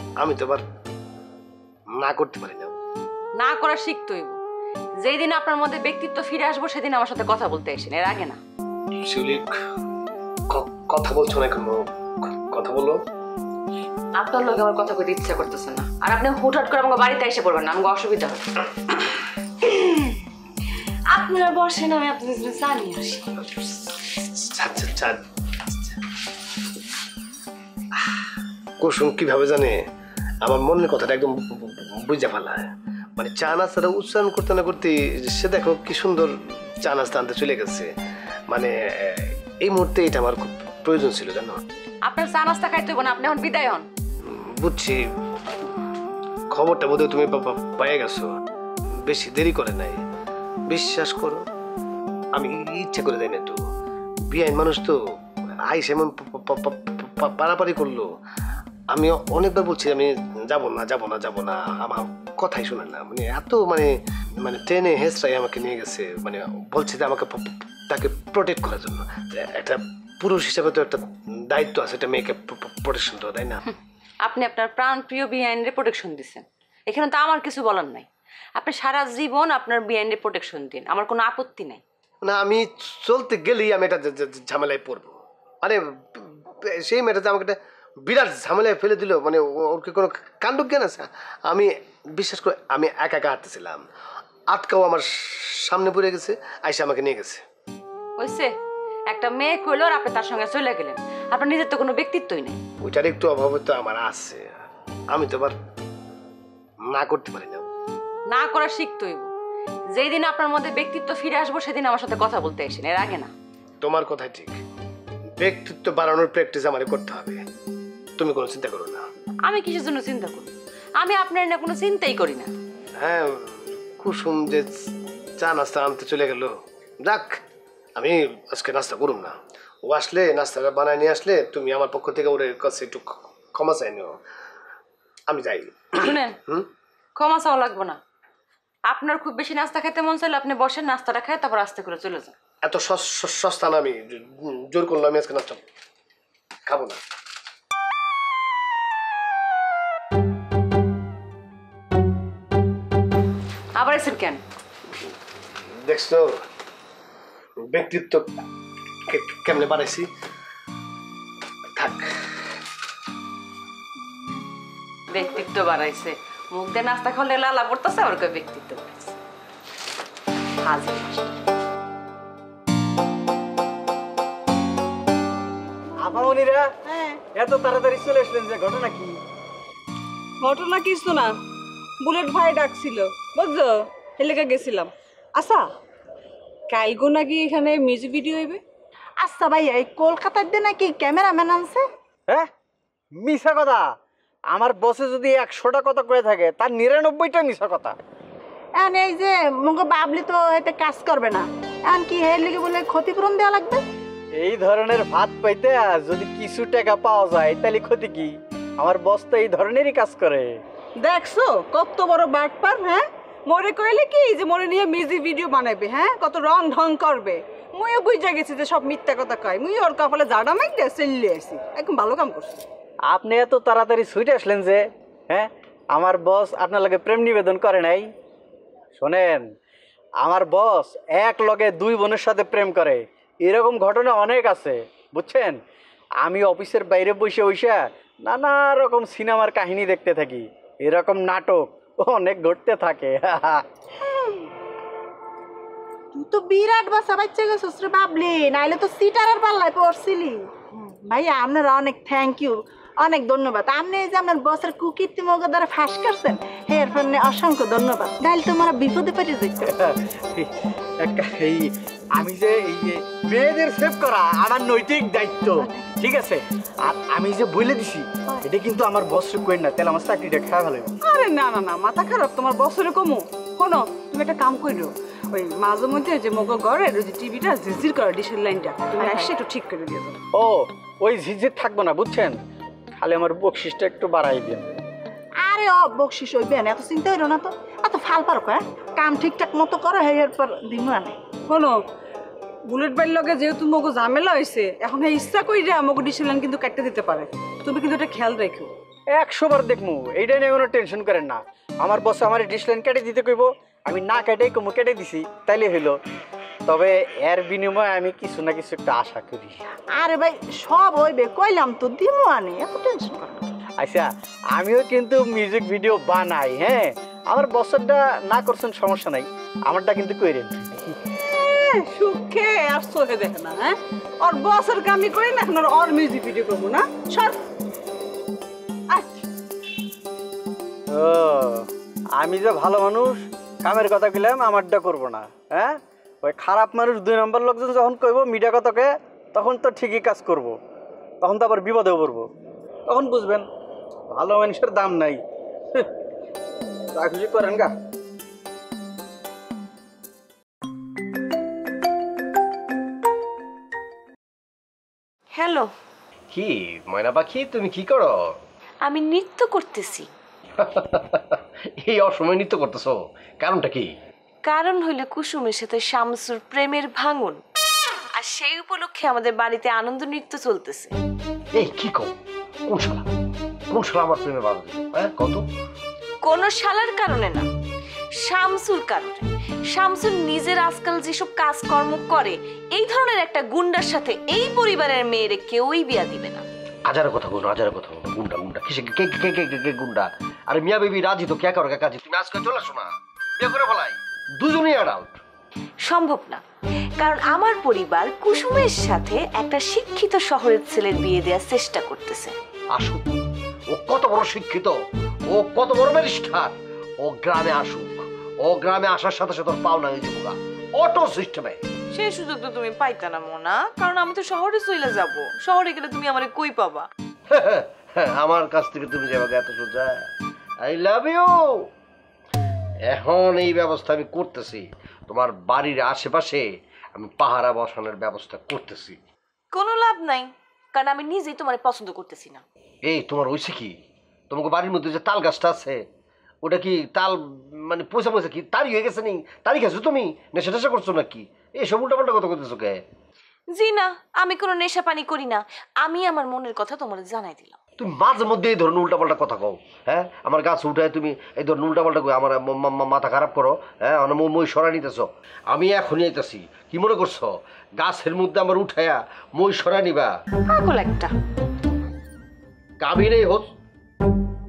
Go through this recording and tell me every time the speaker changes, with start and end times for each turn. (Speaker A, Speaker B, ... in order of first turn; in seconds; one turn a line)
Speaker A: 0.2-0.6
Speaker A: 2.0-2.8
Speaker B: 3.4-4.4
Speaker B: 5.0-8.4
Speaker A: 9.0-9.5
Speaker A: 10.5-13.0
Speaker B: 14.1-18.4
Speaker B: 21.3-23.2
Speaker A: 23.9-25.2
Speaker A: 25.7-26.0
Speaker A: 28.8-29.8
Speaker A: 30.4-36.3
Speaker A: 36.8-37.9
Speaker A: 38.5-41.6
Speaker B: 42.0-43.9
Speaker A: 44.2-45.0
Speaker A: 46.5-48.3
Speaker A: 49.1-50.0
Speaker A: 50.7-51.4
Speaker A: 52.3-53.6
Speaker A: 54.3-55.0
Speaker A: 55.7-58.1
Speaker A: 58.9-73.6
Speaker B: 74.2-81.8
Speaker A: 82.2-87.6
Speaker A: 88.1-93.8
Speaker A: 94.5-97.4
Speaker B: 98.2-98.5
Speaker B: 99.1-102.6
Speaker A: 102.8-104.5
Speaker A: 105.1-105.5
Speaker A: 106.9-107.7
Speaker B: 108.3-109.3
Speaker B: 109.9-113.3
Speaker A: 113.8-114.5
Speaker A: 115.4-117.4
Speaker A: 118.2-119.0
Speaker B: 119.4-122.5
Speaker A: 123.0-124.7
Speaker A: 125.4-126.5
Speaker A: 127.0-127.4
Speaker A: 128.0-134.2
Speaker A: 135.3-136.7
Speaker B: 135.9-136.4
Speaker B: 137.2-138.0
Speaker B: 138.9-142.3
Speaker A: 142.6-145.6
Speaker A: 146.7-147.0
Speaker B: 153.8-154.4
Speaker A: 155.8-156.3
Speaker A: 157.7-158.2
Speaker A: 159.1-160.1
Speaker A: 161.8-162.1
Speaker B: 165.1-169.2
Speaker B: 170.6-171.3
Speaker C: 176.0-179.2
Speaker D: 180.4-181.3
Speaker D: 182.0-185.7
Speaker D: 186.7-188.6
Speaker E: 189.2-191.8
Speaker C: 193.2-193.8
Speaker C: 194.5-197.9
Speaker E: 198.8-203.8
Speaker C: 204.4-210.6
Speaker D: 211.0-222.6
Speaker C: 223.1-228.1
Speaker C: 229.0-229.5
Speaker C: 230.2-235.6
Speaker C: 236.2-243.6
Speaker E: 244.0-244.5
Speaker E: 246.1-259.7
Speaker C: 259.7-260.5
Speaker C: 261.0-270.9
Speaker E: 265.6-265.9
Speaker D: 271.0-280.2
Speaker E: 279.0-279.3
Speaker C: 280.4-282.4
Speaker C: 282.9-284.7
Speaker E: 285.4-291.1
Speaker D: 291.5-291.8
Speaker D: 292.6-298.7
Speaker C: 299.1-306.0
Speaker C: 306.7-309.6
Speaker E: 309.9-313.5
Speaker C: 313.8-320.9
Speaker D: 321.3-327.4
Speaker D: 328.9-329.2
Speaker C: 330.9-340.6
Speaker C: 341.2-342.3
Speaker C: 342.9-343.5
Speaker C: 344.1-345.2
Speaker C: 346.9-347.7
Speaker F: 355.3-355.7
Speaker G: 356.3-358.4
Speaker F: 358.8-360.1
Speaker G: 360.6-363.9
Speaker F: 364.4-367.4
Speaker F: 368.1-370.9
Speaker G: 371.5-373.1
Speaker G: 373.7-375.4
Speaker F: 376.2-377.5
Speaker F: 378.2-386.4
Speaker G: 386.9-395.2
Speaker F: 395.9-396.4
Speaker F: 397.0-402.3
Speaker G: 402.7-404.8
Speaker G: 405.3-411.6
Speaker F: 411.9-416.9
Speaker G: 417.3-420.1
Speaker G: 420.6-421.7
Speaker G: 422.8-429.0
Speaker F: 429.5-432.4
Speaker G: 432.8-433.8
Speaker G: 434.3-435.8
Speaker G: 436.4-442.8
Speaker F: 443.5-447.6
Speaker G: 447.8-460.1
Speaker F: 460.5-461.1
Speaker G: 462.8-463.5